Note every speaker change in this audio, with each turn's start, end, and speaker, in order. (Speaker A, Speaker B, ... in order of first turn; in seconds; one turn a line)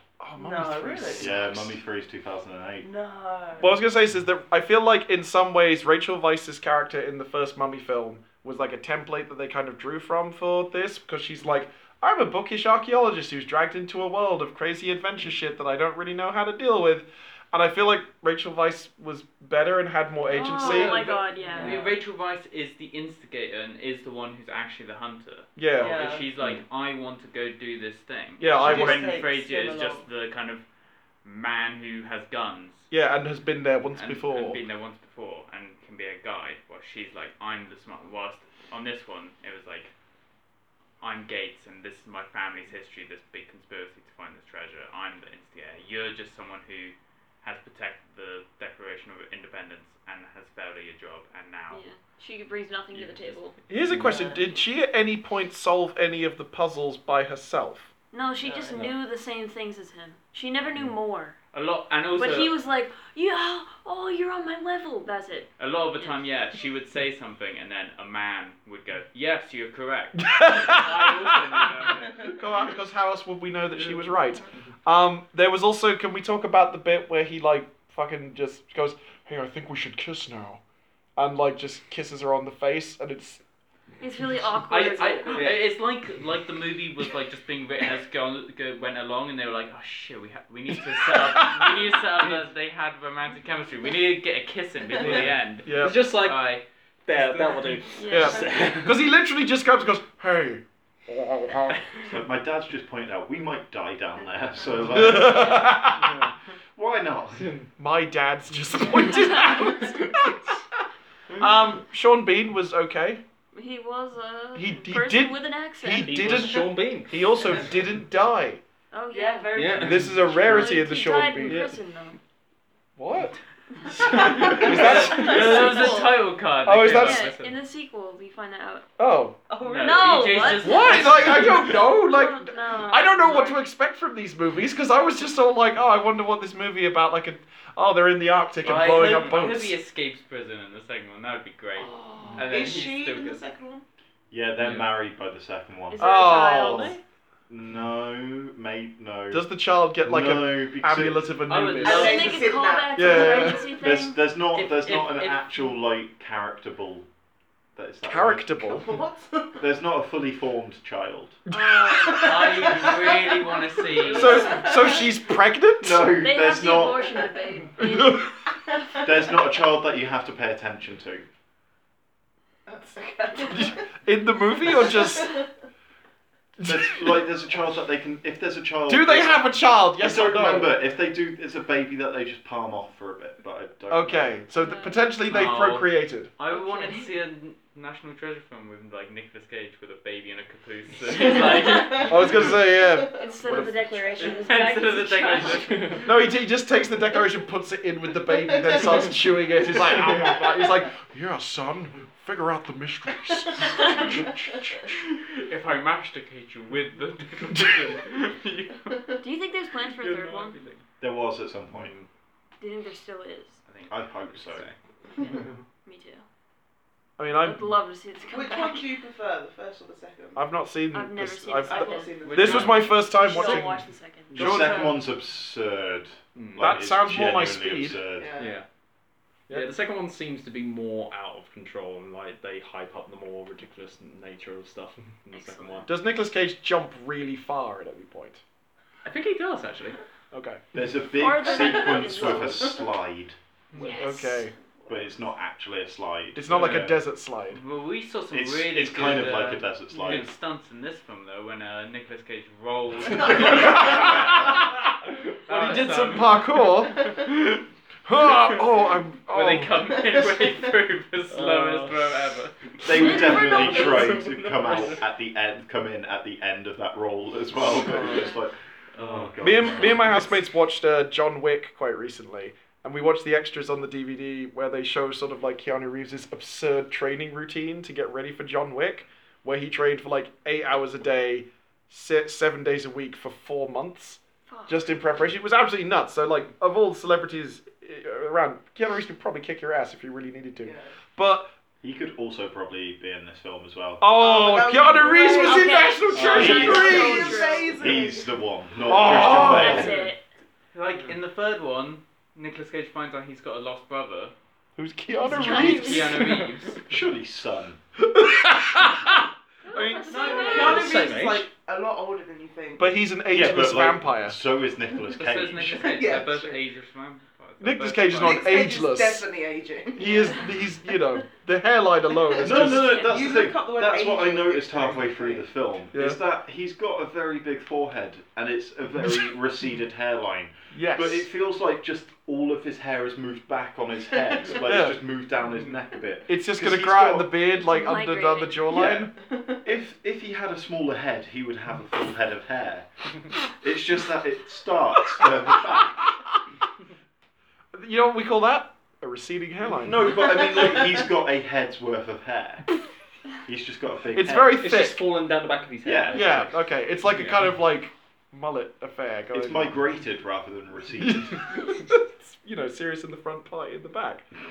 Speaker A: 0.2-1.8
Speaker B: 0.3-1.3
Speaker C: 1.2-2.9
Speaker B: 2.8-3.8
Speaker A: 3.6-21.0
Speaker D: 20.3-21.8
Speaker E: 20.5-30.6
Speaker B: 21.5-21.9
Speaker A: 25.6-26.0
Speaker B: 25.8-26.3
Speaker A: 28.4-29.2
Speaker B: 28.6-30.1
Speaker E: 31.2-32.9
Speaker A: 32.9-34.6
Speaker E: 33.9-39.9
Speaker E: 41.0-51.8
Speaker D: 51.7-53.5
Speaker E: 52.9-53.4
Speaker A: 53.7-57.9
Speaker B: 54.0-54.5
Speaker D: 58.1-61.4
Speaker B: 58.4-58.8
Speaker E: 61.5-62.5
Speaker D: 62.1-66.2
Speaker E: 65.6-72.4
Speaker A: 70.2-80.6
Speaker A: 81.2-83.4
Speaker D: 84.0-85.5
Speaker E: 84.7-97.8
Speaker F: 85.3-85.6
Speaker A: 90.8-92.0
Speaker F: 95.0-96.4
Speaker A: 95.6-96.0
Speaker F: 97.0-99.0
Speaker D: 97.9-98.5
Speaker A: 98.1-101.8
Speaker C: 102.1-106.1
Speaker A: 104.9-106.2
Speaker F: 106.0-106.3
Speaker C: 106.7-107.5
Speaker F: 107.4-107.7
Speaker A: 107.8-110.6
Speaker A: 111.4-113.2
Speaker D: 113.5-116.4
Speaker A: 114.5-118.6
Speaker F: 115.9-117.6
Speaker D: 118.9-122.2
Speaker B: 119.1-120.0
Speaker F: 119.5-120.8
Speaker A: 119.8-121.7
Speaker F: 121.4-121.7
Speaker A: 123.0-123.3
Speaker A: 124.0-126.0
Speaker D: 124.1-128.9
Speaker E: 124.1-127.5
Speaker B: 124.5-125.8
Speaker A: 126.6-127.3
Speaker A: 129.0-129.4
Speaker B: 129.5-131.1
Speaker E: 129.6-131.7
Speaker D: 129.8-133.6
Speaker A: 130.5-139.8
Speaker E: 138.6-143.4
Speaker D: 141.8-142.4
Speaker B: 142.4-143.8
Speaker C: 144.3-146.6
Speaker D: 145.9-147.0
Speaker A: 146.0-146.9
Speaker C: 147.5-149.5
Speaker A: 149.3-152.2
Speaker C: 150.0-151.4
Speaker E: 151.4-152.5
Speaker B: 151.8-153.8
Speaker D: 151.8-154.2
Speaker A: 152.9-153.7
Speaker C: 153.8-157.1
Speaker E: 154.5-155.6
Speaker C: 157.8-158.6
Speaker A: 158.0-158.9
Speaker B: 158.6-159.6
Speaker C: 159.6-161.4
Speaker A: 161.5-162.2
Speaker D: 161.5-165.0
Speaker B: 161.9-165.1
Speaker E: 162.1-164.6
Speaker A: 164.1-166.2
Speaker C: 165.8-167.1
Speaker D: 166.2-168.3
Speaker A: 167.8-168.4
Speaker B: 168.5-169.2
Speaker C: 169.0-171.3
Speaker B: 172.7-174.0
Speaker A: 173.3-175.4
Speaker B: 174.6-175.5
Speaker A: 176.6-177.2
Speaker C: 176.6-184.4
Speaker A: 178.9-180.8
Speaker A: 183.9-186.3
Speaker D: 184.6-185.1
Speaker E: 185.2-192.5
Speaker D: 186.5-187.1
Speaker B: 191.2-193.3
Speaker D: 191.6-191.9
Speaker A: 192.0-193.9
Speaker D: 193.1-196.0
Speaker E: 194.2-196.1
Speaker F: 195.8-196.0
Speaker A: 196.0-205.0
Speaker B: 198.5-199.1
Speaker E: 205.2-209.2
Speaker A: 207.5-207.8
Speaker D: 209.2-210.6
Speaker E: 210.0-210.8
Speaker C: 211.0-211.9
Speaker F: 211.7-212.1
Speaker D: 212.6-213.6
Speaker E: 213.7-214.8
Speaker C: 213.9-214.7
Speaker D: 215.2-216.2
Speaker A: 217.2-217.7
Speaker D: 217.4-218.9
Speaker B: 218.3-220.4
Speaker A: 220.3-225.0
Speaker D: 220.9-224.3
Speaker B: 221.6-222.9
Speaker E: 222.2-223.1
Speaker C: 224.3-228.4
Speaker F: 226.3-226.8
Speaker A: 226.6-228.0
Speaker B: 228.1-228.6
Speaker F: 228.4-228.6
Speaker F: 229.5-235.9
Speaker D: 235.3-235.8
Speaker A: 235.8-238.4
Speaker E: 239.0-240.0
Speaker A: 240.3-240.6
Speaker C: 240.7-243.3
Speaker D: 241.1-242.8
Speaker B: 241.5-242.0
Speaker D: 243.8-244.5
Speaker A: 243.8-244.5
Speaker C: 244.9-247.0
Speaker A: 246.3-247.6
Speaker E: 246.5-247.0
Speaker E: 247.5-254.8
Speaker C: 248.3-250.3
Speaker A: 253.2-254.8
Speaker E: 255.4-256.9
Speaker A: 255.5-260.0
Speaker E: 259.3-262.6
Speaker F: 261.3-262.0
Speaker C: 262.8-270.3
Speaker D: 262.9-264.3
Speaker F: 263.3-265.0
Speaker A: 267.9-268.3
Speaker F: 269.0-269.3
Speaker A: 269.4-291.5
Speaker D: 284.5-284.8
Speaker B: 290.6-290.9
Speaker C: 291.8-294.1
Speaker A: 294.0-297.5
Speaker B: 294.1-298.3
Speaker D: 294.9-297.7
Speaker C: 296.1-297.1
Speaker C: 297.6-300.0
Speaker A: 298.8-300.0
Speaker D: 299.1-300.2
Speaker E: 300.7-304.3
Speaker A: 304.8-306.3
Speaker D: 305.2-306.2
Speaker E: 305.6-306.9
Speaker C: 306.9-307.8
Speaker A: 308.0-310.2
Speaker D: 309.6-311.1
Speaker E: 310.0-310.7
Speaker B: 310.1-312.9
Speaker F: 310.4-311.5
Speaker A: 312.8-314.4
Speaker C: 313.3-315.8
Speaker E: 315.1-318.6
Speaker B: 315.6-316.6
Speaker A: 317.6-319.2
Speaker B: 318.1-320.4
Speaker A: 319.9-323.1
Speaker D: 320.1-320.4
Speaker B: 322.2-325.5
Speaker C: 322.4-337.3
Speaker D: 322.8-323.1
Speaker A: 325.9-326.2
Speaker A: 330.7-331.3
Speaker A: 334.6-335.0
Speaker A: 336.3-339.1
Speaker D: 337.5-338.6
Speaker C: 338.7-346.1
Speaker B: 339.2-339.6
Speaker A: 347.7-350.1
Speaker C: 349.8-352.8
Speaker C: 353.4-354.6
Speaker A: 354.1-355.0
Speaker F: 354.5-356.5
Speaker C: 355.8-356.5
Speaker A: 356.1-359.8
Speaker F: 357.1-357.5
Speaker C: 359.3-361.4
Speaker A: 361.0-364.2